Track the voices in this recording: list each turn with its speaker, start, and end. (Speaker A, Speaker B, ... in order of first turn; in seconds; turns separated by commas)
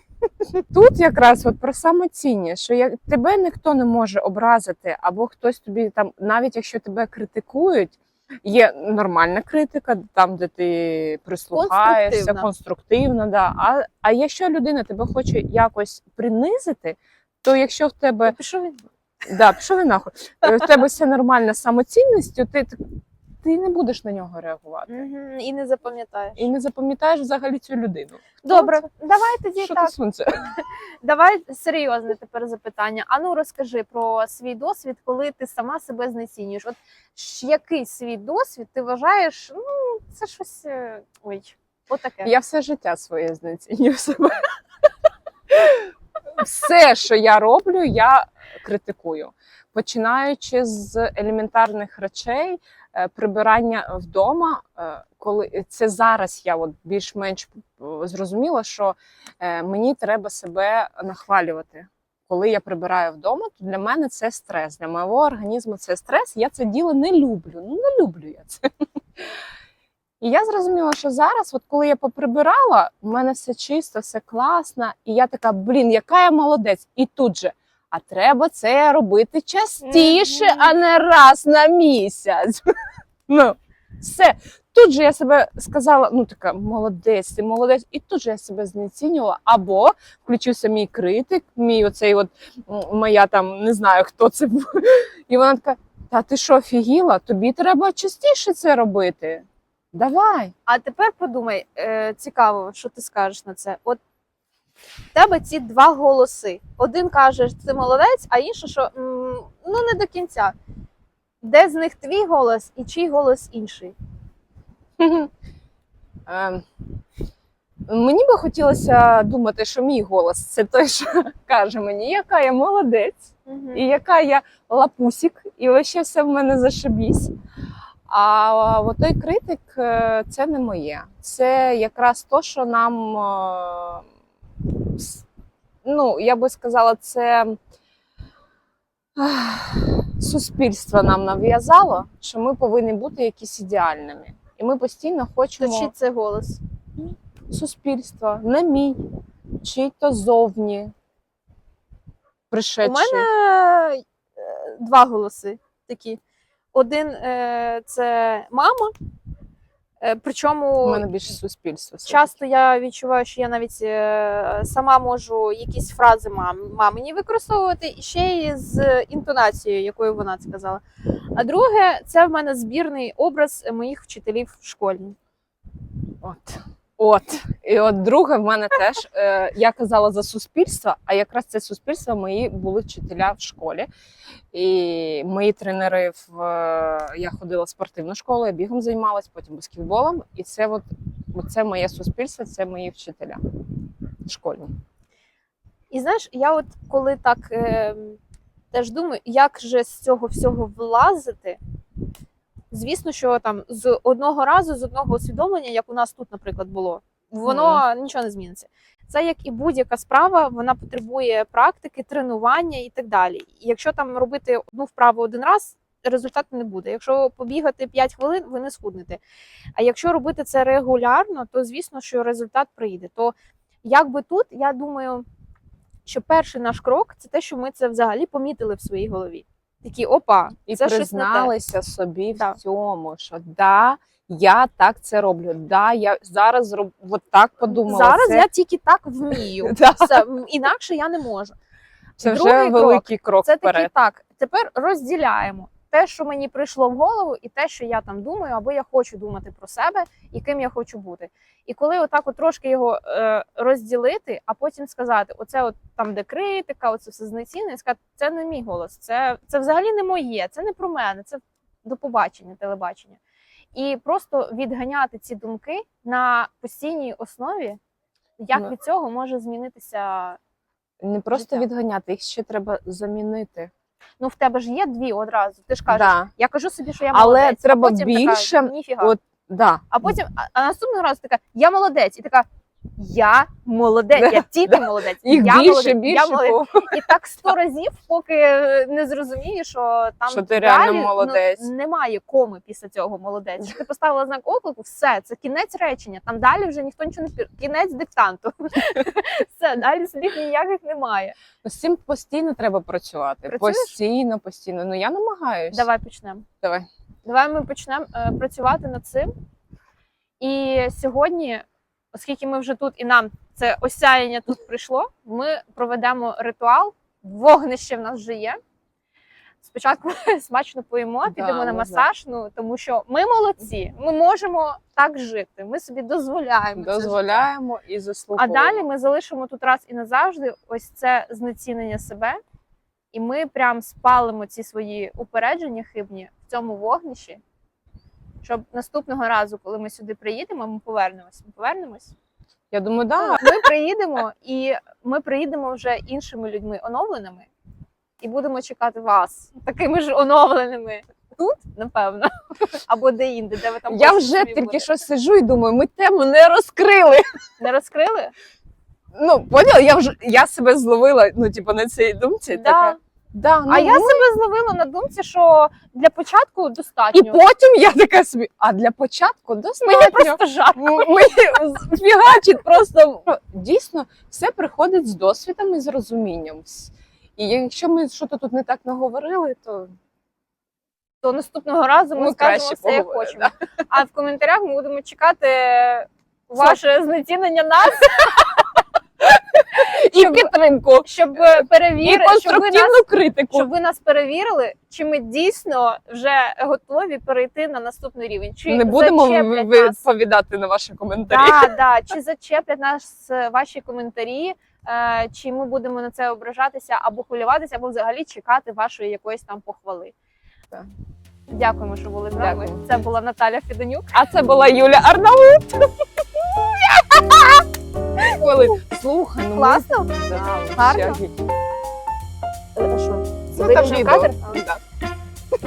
Speaker A: 0.4-18.4, Speaker B: 11.5-12.5, Speaker B: 18.2-18.8, Speaker A: 19.2-22.8, Speaker A: 23.4-25.1, Speaker B: 24.9-26.5, Speaker A: 26.4-28.9, Speaker B: 28.4-29.9, Speaker A: 29.6-30.5, Speaker B: 30.6-42.3, Speaker A: 42.2-44.4, Speaker A: 45.5-68.6, Speaker A: 70.2-82.6, Speaker B: 79.8-80.7, Speaker A: 83.3-100.5, Speaker B: 100.7-104.0, Speaker B: 105.1-110.5, Speaker B: 111.4-113.9, Speaker A: 115.0-115.3, Speaker A: 116.3-116.6, Speaker A: 117.9-127.3, Speaker B: 123.5-123.8, Speaker A: 128.1-134.1, Speaker A: 134.6-135.2, Speaker A: 135.8-137.6, Speaker A: 139.2-145.9, Speaker B: 145.6-146.6, Speaker A: 147.5-149.0, Speaker A: 149.6-150.9, Speaker A: 152.5-153.3, Speaker B: 152.8-156.2, Speaker B: 156.7-158.9, Speaker B: 160.0-161.1, Speaker A: 160.8-162.4, Speaker B: 162.1-170.8, Speaker B: 171.3-175.2, Speaker A: 176.2-183.9, Speaker A: 184.5-193.4, Speaker A: 194.2-194.7, Speaker B: 195.9-198.2, Speaker B: 198.7-201.6, Speaker B: 202.7-219.2, Speaker A: 207.4-207.8, Speaker B: 219.8-225.2, Speaker B: 226.1-231.5, Speaker A: 230.7-238.5, Speaker B: 237.7-241.6, Speaker A: 239.6-240.2, Speaker A: 242.2-243.9, Speaker B: 242.2-263.2, Speaker B: 263.7-267.8, Speaker B: 268.4-270.4, Speaker A: 271.0-273.7, Speaker B: 271.3-271.6, Speaker B: 274.2-279.1, Speaker A: 275.9-276.3, Speaker A: 277.1-280.1, Speaker B: 279.9-282.4, Speaker B: 283.0-301.4, Speaker A: 284.1-286.9, Speaker A: 290.3-291.7, Speaker A: 301.6-305.9, Speaker B: 303.5-303.9, Speaker B: 305.7-306.4, Speaker A: 306.6-306.9, Speaker B: 307.2-309.3, Speaker B: 310.4-318.6, Speaker B: 319.6-327.4, Speaker A: 321.2-322.1, Speaker A: 326.8-328.8, Speaker B: 328.4-332.4, Speaker B: 333.1-337.4, Speaker B: 338.4-342.1, Speaker A: 342.7-343.5, Speaker B: 343.2-347.5, Speaker B: 348.2-354.9, Speaker A: 353.9-357.2, Speaker B: 357.6-358.3, Speaker A: 359.1-364.3, Speaker B: 362.5-363.0, Speaker B: 363.7-367.4, Speaker A: 367.1-379.9, Speaker B: 369.8-371.4, Speaker B: 381.2-388.6, Speaker A: 382.1-383.5, Speaker A: 389.2-393.7, Speaker B: 390.1-390.5, Speaker B: 391.0-400.0, Speaker A: 398.7-401.7, Speaker B: 401.3-410.1, Speaker B: 411.5-414.1, Speaker A: 412.4-412.8, Speaker A: 414.1-417.6, Speaker A: 418.2-421.3, Speaker B: 419.5-421.2, Speaker B: 422.8-424.6, Speaker A: 423.5-424.8